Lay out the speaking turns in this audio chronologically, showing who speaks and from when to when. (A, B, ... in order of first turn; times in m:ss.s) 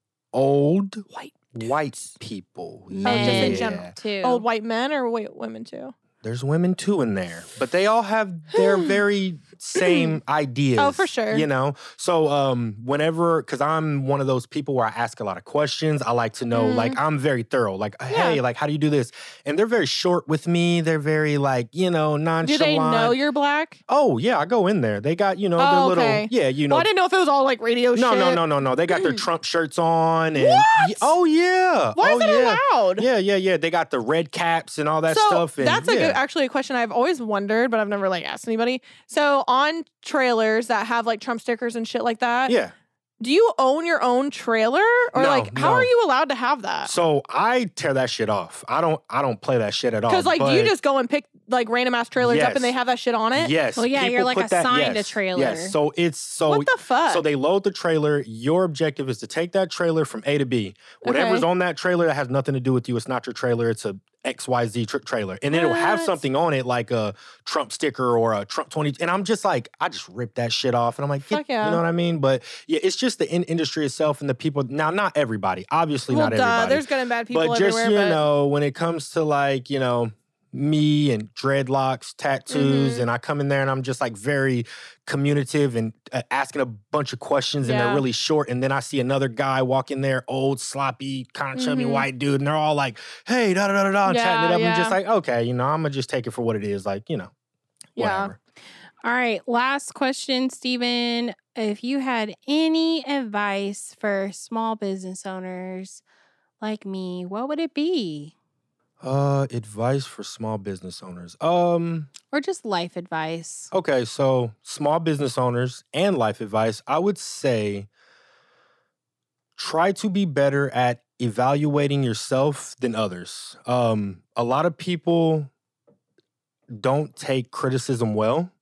0:00.3-0:03.9 A
0:01.1-0:02.1 B
0:02.9-0:04.4 C
0:03.0-0:06.0 B
0:06.2-0:23.2 A
0:08.5-0:09.0 B
0:09.8-0:10.2 B
0:10.8-0:11.5 B
0:16.5-0:17.0 B
0:18.1-0:18.4 B
0:22.4-0:23.8 B
0:23.9-0:26.9 A
0:25.6-0:29.2 B
0:28.0-0:36.2 A
0:30.4-0:31.1 B
0:32.0-0:33.1 B
0:35.1-0:42.6 B
0:42.5-0:42.7 A
0:43.2-0:46.9 B
0:45.1-0:45.9 A
0:46.8-0:50.7 A
0:50.1-0:53.5 B
0:52.2-0:52.8 A
0:53.4-1:37.3 A
0:53.8-0:55.8 C
0:56.5-0:57.2 B
1:01.0-1:01.5 B
1:05.5-1:06.2 B
1:11.3-1:11.8 B
1:16.1-1:18.2 B
1:22.5-1:23.1 B
1:27.6-1:28.0 B
1:31.6-1:32.0 B
1:34.1-1:35.0 B
1:38.0-1:38.3 B
1:38.0-1:38.4 A
1:39.0-1:46.0 C
1:46.6-1:48.3 C
1:49.0-1:52.1 A
1:52.3-1:53.7 C
1:53.7-1:57.9 A
1:59.6-2:05.5 A
2:06.7-2:08.5 A